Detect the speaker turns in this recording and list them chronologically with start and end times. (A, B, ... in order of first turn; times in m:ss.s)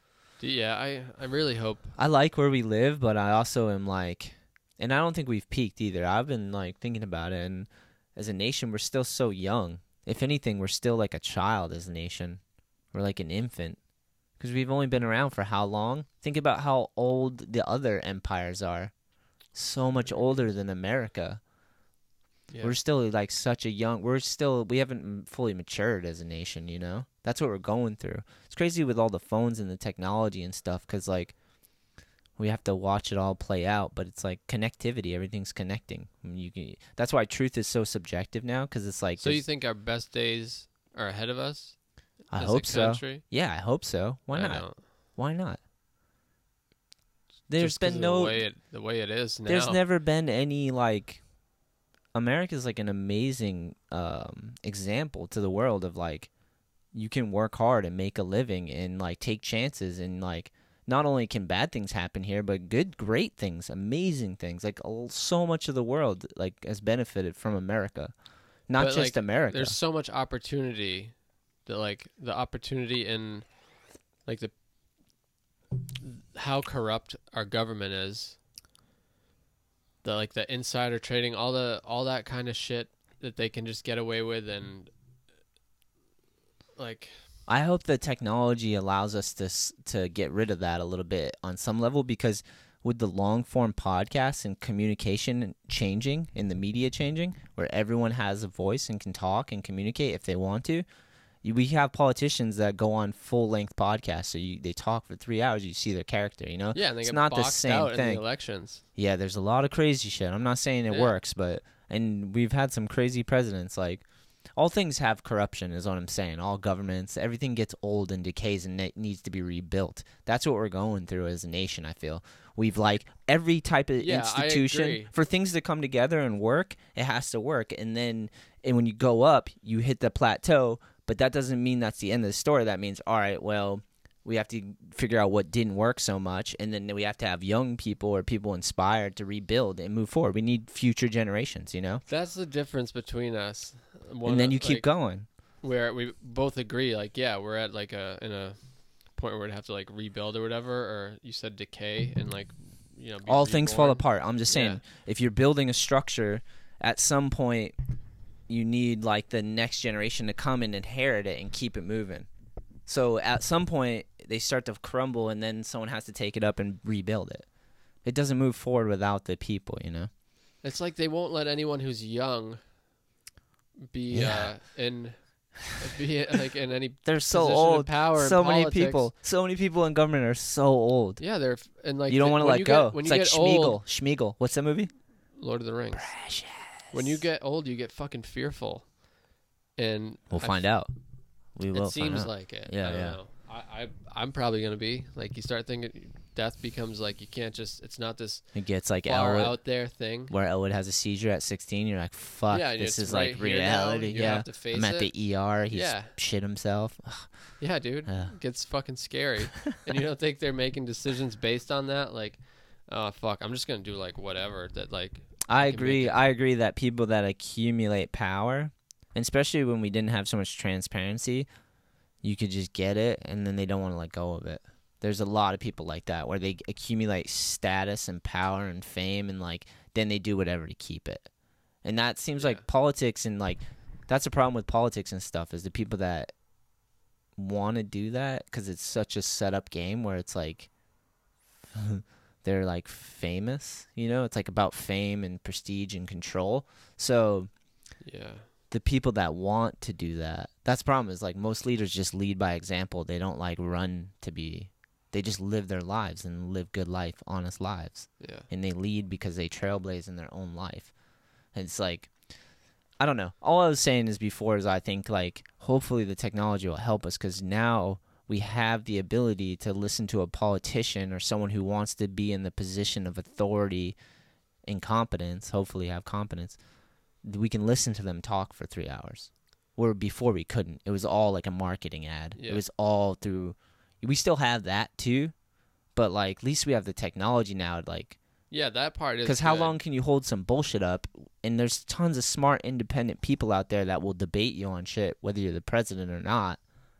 0:00.4-0:01.9 A
0:02.0-0:12.4 B
0:12.9-0:13.8 B
0:14.4-0:18.9 B
0:19.5-0:21.4 B
0:22.5-0:22.7 A
0:22.6-0:31.3 B
0:32.4-0:39.4 B
0:39.2-0:41.8 A
0:42.3-0:43.2 A
0:42.3-0:45.6 B
0:44.3-0:44.8 A
0:47.5-0:48.4 B
0:47.6-0:49.8 A
0:49.5-0:51.2 B
0:52.1-0:56.3 B
0:56.9-1:08.1 B
1:08.7-1:09.8 B
1:08.8-1:13.5 A
1:14.2-1:14.5 A
1:16.0-1:18.4 A
1:20.0-1:24.9 A
1:26.8-1:27.2 A
1:27.5-1:40.8 B
1:41.4-1:48.2 B
1:46.7-1:48.8 A
1:49.0-1:54.0 B
1:50.9-1:51.1 A
1:54.6-2:22.0 B
2:04.0-2:05.1 A
2:22.1-2:24.9 A
2:24.2-2:25.2 B
2:25.6-2:28.6 A
2:29.1-2:34.8 A
2:33.2-2:37.7 B
2:38.5-2:42.3 B
2:42.9-2:47.4 B
2:48.0-2:50.1 B
2:50.6-2:52.6 A
2:53.8-2:59.1 A
2:54.1-2:54.5 B
2:57.0-3:01.2 B
3:01.2-3:03.8 A
3:02.1-3:04.9 B
3:05.4-3:06.1 A
3:05.9-3:07.1 B
3:06.9-3:08.9 A
3:09.8-3:10.6 A
3:10.3-3:10.9 B
3:11.6-3:13.2 B
3:11.7-3:18.4 A
3:18.5-3:19.6 B
3:19.0-3:20.3 A
3:20.3-3:27.3 B
3:22.5-3:25.1 A
3:25.7-3:26.1 A
3:27.6-3:36.2 A
3:28.1-3:28.3 B
3:35.5-3:41.5 B
3:42.2-3:51.3 B
3:51.8-3:56.3 B
3:57.4-4:00.7 B
4:01.7-4:07.5 B
4:08.0-4:08.5 A
4:08.7-4:20.9 B
4:18.2-4:18.5 A
4:21.5-4:22.1 B
4:23.0-4:34.0 B
4:34.6-4:36.6 B
4:37.2-4:45.3 B
4:42.3-4:42.6 A
4:45.9-4:48.2 B
4:48.5-4:49.8 A
4:49.2-4:56.6 B